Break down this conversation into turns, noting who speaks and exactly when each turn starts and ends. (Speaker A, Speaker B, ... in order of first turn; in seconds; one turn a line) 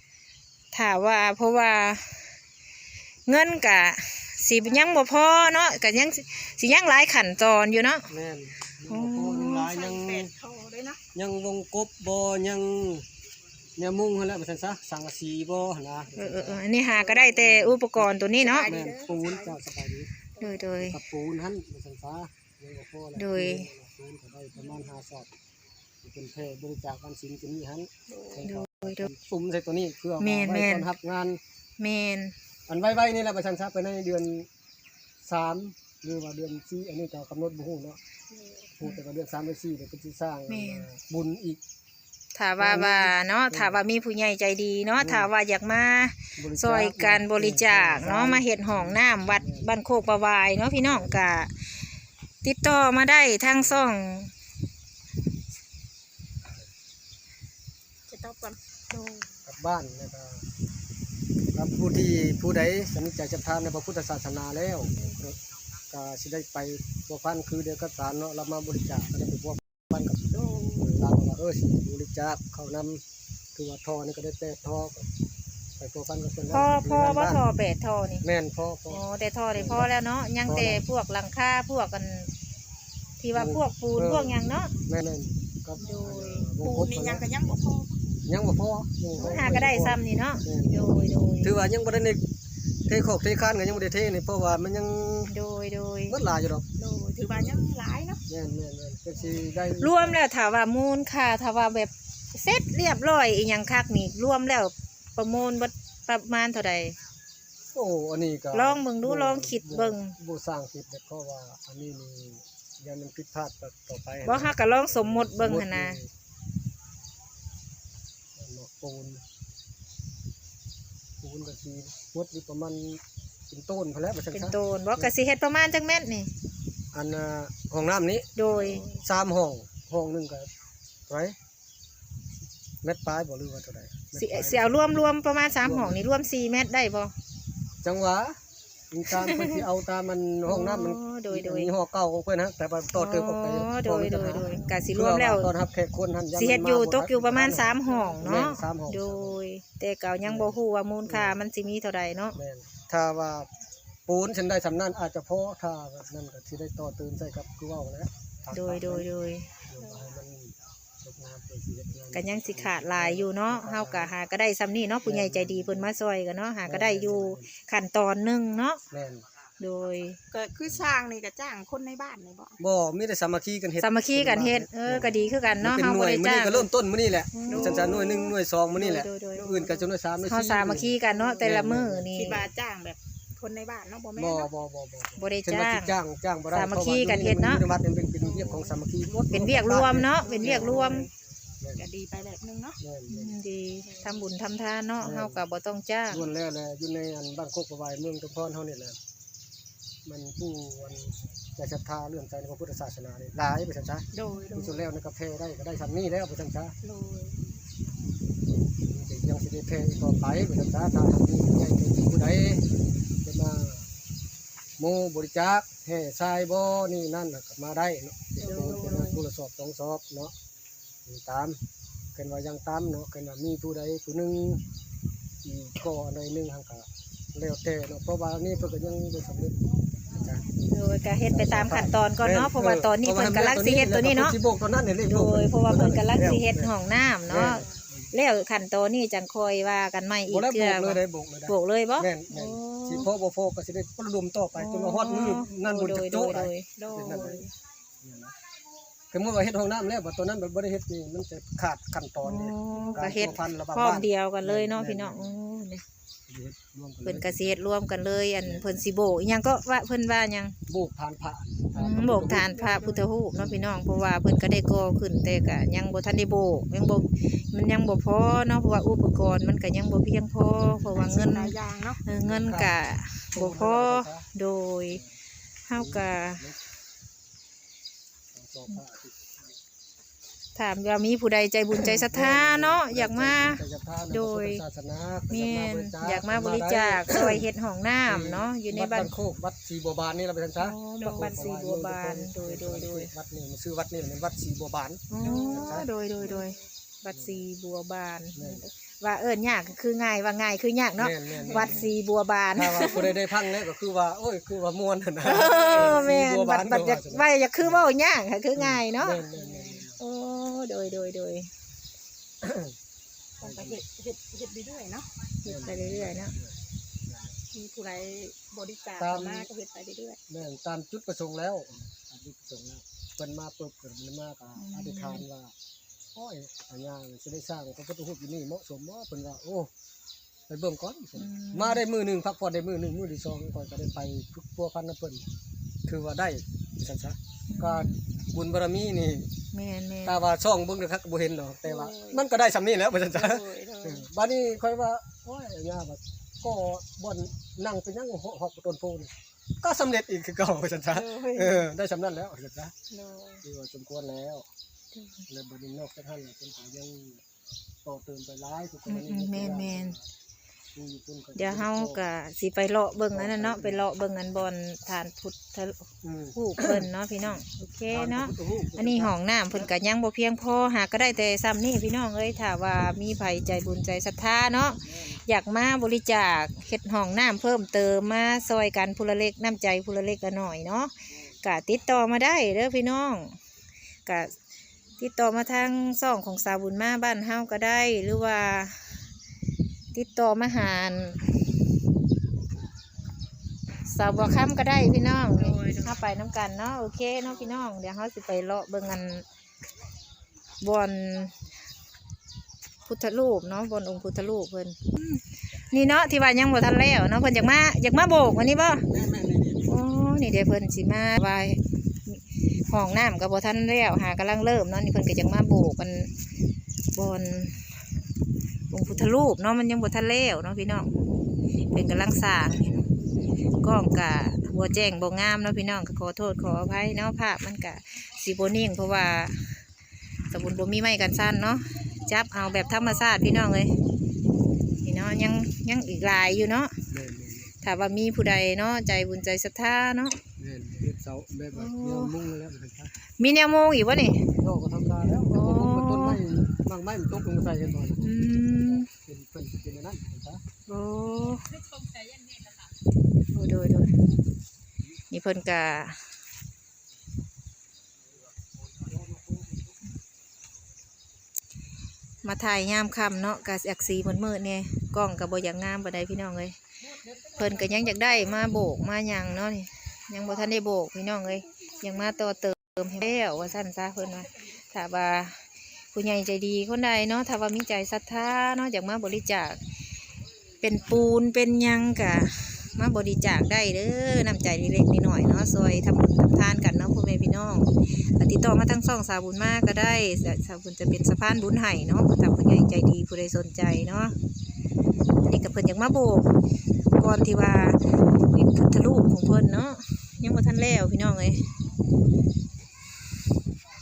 Speaker A: 0.7-2.3
Speaker A: 3.3-8.1
Speaker B: 8.1-10.3
Speaker A: 8.9-9.7
Speaker C: 9.6-11.0
Speaker B: 11.2-13.1
Speaker B: 13.8-20.1
Speaker A: 16.1-18.7
Speaker C: 18.4-19.6
Speaker A: 20.4-21.0
Speaker B: 20.8-25.3
Speaker A: 23.2-23.7
Speaker B: 26.0-31.4
Speaker C: 28.1-28.5
Speaker A: 28.5-29.1
Speaker A: 30.2-30.9
Speaker A: 31.8-32.3
Speaker B: 32.7-34.5
Speaker B: 35.2-38.0
Speaker C: 38.3-38.7
Speaker B: 38.8-41.6
Speaker A: 40.5-40.9
Speaker A: 42.4-51.5
Speaker B: 42.6-43.8
Speaker B: 45.0-45.3
Speaker B: 46.4-49.7
Speaker B: 50.8-51.2
Speaker A: 52.4-54.3
Speaker B: 53.6-54.0
Speaker C: 58.1-59.3
Speaker B: 59.5-60.4
Speaker B: 61.5-65.4
Speaker B: 65.9-73.0
Speaker C: 70.3-70.9
Speaker B: 73.5-75.1
Speaker B: 75.8-77.4
Speaker A: 76.5-78.2
Speaker B: 78.2-79.0
Speaker A: 78.9-82.3
Speaker B: 79.5-79.9
Speaker B: 80.5-80.8
Speaker A: 83.2-84.7
Speaker B: 83.3-87.3
Speaker A: 85.8-86.5
Speaker C: 86.6-88.0
Speaker B: 88.3-90.9
Speaker A: 89.2-91.5
Speaker B: 91.4-92.2
Speaker B: 92.9-95.3
Speaker A: 95.3-96.2
Speaker B: 96.1-96.7
Speaker C: 96.8-98.2
Speaker B: 98.3-100.2
Speaker A: 99.8-106.9
Speaker B: 107.7-116.1
Speaker A: 108.5-110.2
Speaker A: 114.2-116.0
Speaker B: 118.3-119.2
Speaker B: 121.2-125.1
Speaker A: 124.3-126.3
Speaker B: 126.9-130.5
Speaker A: 128.4-129.0
Speaker B: 131.1-131.4
Speaker B: 132.8-135.1
Speaker A: 134.2-137.1
Speaker B: 135.6-136.0
Speaker B: 137.8-138.4
Speaker B: 138.9-149.4
Speaker A: 139.1-139.7
Speaker A: 140.5-141.7
Speaker A: 142.9-145.5
Speaker A: 146.3-152.4
Speaker B: 150.2-151.4
Speaker B: 152.4-153.5
Speaker B: 154.1-159.1
Speaker A: 158.5-159.5
Speaker B: 159.7-164.1
Speaker C: 159.8-160.1
Speaker A: 162.1-168.8
Speaker B: 165.0-165.9
Speaker B: 166.7-167.5
Speaker B: 168.9-169.2
Speaker A: 169.6-170.2
Speaker C: 170.3-172.6
Speaker B: 172.6-182.4
Speaker A: 173.8-176.7
Speaker A: 177.3-182.4
Speaker C: 177.5-178.1
Speaker C: 182.1-184.5
Speaker B: 184.2-191.1
Speaker A: 185.2-186.0
Speaker A: 186.5-187.6
Speaker C: 188.2-188.8
Speaker A: 189.3-191.1
Speaker C: 190.2-191.1
Speaker B: 191.6-191.9
Speaker C: 191.8-192.8
Speaker B: 192.8-193.4
Speaker A: 193.1-196.3
Speaker C: 193.8-194.3
Speaker B: 195.0-195.4
Speaker B: 196.1-199.0
Speaker B: 200.1-206.8
Speaker C: 204.1-204.8
Speaker C: 206.8-207.4
Speaker B: 208.7-212.6
Speaker B: 213.2-213.9
Speaker B: 214.8-220.3
Speaker C: 218.4-219.2
Speaker B: 221.1-221.6
Speaker B: 222.2-224.6
Speaker B: 225.4-230.4
Speaker A: 230.7-234.4
Speaker B: 231.3-236.7
Speaker A: 235.1-243.1
Speaker B: 237.3-238.1
Speaker B: 240.3-247.5
Speaker A: 244.6-247.4
Speaker C: 246.8-247.5
Speaker B: 248.0-248.3
Speaker B: 249.1-255.4
Speaker A: 252.2-255.8
Speaker C: 252.7-253.1
Speaker B: 256.3-257.6
Speaker A: 257.0-260.6
Speaker B: 258.4-258.7
Speaker B: 260.7-263.7
Speaker A: 261.8-271.6
Speaker C: 262.7-263.1
Speaker C: 271.0-272.0
Speaker A: 272.1-275.0
Speaker B: 272.1-272.8
Speaker B: 273.3-274.3
Speaker B: 274.9-275.2
Speaker A: 275.7-276.4
Speaker B: 275.7-276.6
Speaker B: 278.3-279.5
Speaker A: 280.6-284.6
Speaker B: 281.8-287.5
Speaker A: 285.3-289.1
Speaker B: 288.1-296.4
Speaker A: 290.6-293.1
Speaker A: 295.1-303.2
Speaker B: 297.1-297.4
Speaker B: 298.4-298.6
Speaker B: 301.0-301.9
Speaker B: 302.6-307.9
Speaker A: 305.2-309.2
Speaker C: 305.5-306.0
Speaker B: 308.6-310.0
Speaker C: 309.4-309.9
Speaker A: 310.0-311.5
Speaker B: 312.4-312.8
Speaker C: 313.4-315.1
Speaker B: 313.4-313.8
Speaker A: 315.4-316.3
Speaker B: 315.4-317.4
Speaker C: 317.5-320.2
Speaker B: 319.0-319.5
Speaker B: 320.3-325.5
Speaker A: 324.6-325.2
Speaker B: 326.1-329.7
Speaker B: 330.5-335.2
Speaker A: 331.2-331.8
Speaker B: 335.9-339.3
Speaker A: 337.5-338.0
Speaker A: 339.5-340.2
Speaker B: 340.1-352.7
Speaker C: 341.6-342.2
Speaker C: 343.1-344.1
Speaker C: 350.9-351.6
Speaker C: 352.9-353.4
Speaker B: 353.4-354.5
Speaker B: 355.3-357.2
Speaker B: 357.9-360.0
Speaker A: 358.9-360.0
Speaker B: 360.8-362.0
Speaker A: 361.4-383.4
Speaker B: 363.1-363.9
Speaker B: 366.0-369.7
Speaker A: 384.1-384.3
Speaker A: 385.0-389.0
Speaker A: 389.9-391.4
Speaker A: 393.9-399.3
Speaker C: 395.4-396.0
Speaker A: 400.6-401.4
Speaker A: 402.9-408.9
Speaker B: 408.9-409.8
Speaker A: 409.7-416.1
Speaker A: 416.9-417.7
Speaker A: 418.7-420.9
Speaker A: 421.7-422.9
Speaker A: 423.6-429.6
Speaker A: 430.3-433.7
Speaker A: 434.8-436.7
Speaker B: 436.9-437.5
Speaker A: 437.6-440.2
Speaker B: 440.4-442.9
Speaker A: 441.5-442.1
Speaker A: 443.2-444.3
Speaker B: 444.3-450.4
Speaker A: 445.3-446.2
Speaker A: 448.0-448.9
Speaker A: 450.7-451.7
Speaker A: 453.3-453.9
Speaker A: 455.1-456.0
Speaker B: 458.8-459.5
Speaker A: 462.2-466.6
Speaker A: 467.4-479.6
Speaker A: 480.6-494.1
Speaker A: 495.2-496.3
Speaker A: 497.0-501.4